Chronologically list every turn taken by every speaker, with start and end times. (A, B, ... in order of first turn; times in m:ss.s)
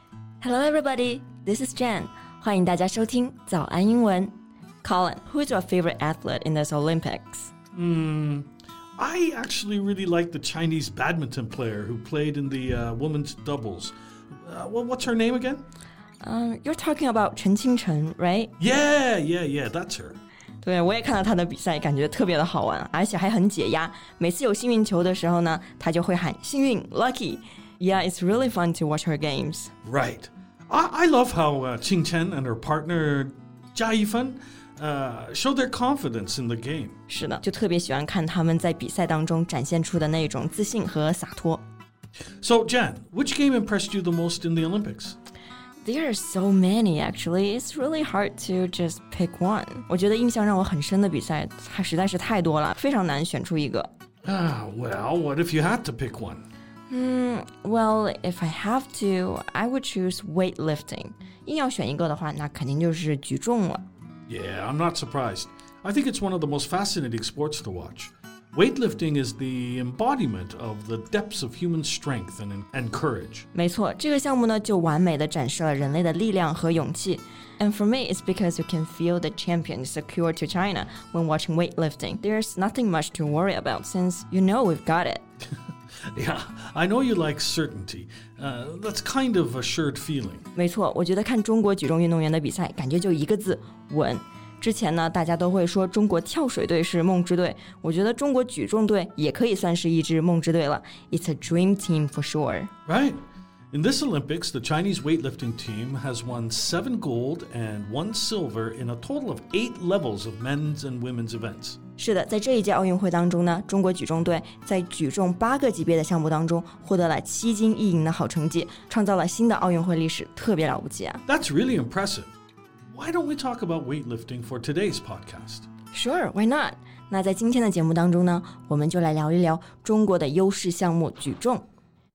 0:00.4-0:07.5 A
0:07.7-0:15.6 B
0:16.2-0:18.5 A
0:18.6-0:20.2 B
0:20.6-0:29.7 A
0:29.8-0:37.0 B
0:37.1-0:41.6 A
0:42.4-0:45.2 B
0:45.8-0:53.9 A
0:54.2-0:56.4 B
0:56.9-1:03.8 A
1:04.3-1:13.5 B
1:13.5-1:25.2 A
1:26.1-1:30.4 B
1:30.5-1:42.7 A
1:42.8-1:43.2 B
1:43.7-1:51.8 B
1:52.0-2:01.2 A
2:01.2-2:02.3 B
2:02.9-2:05.6 B
2:05.9-2:11.6 A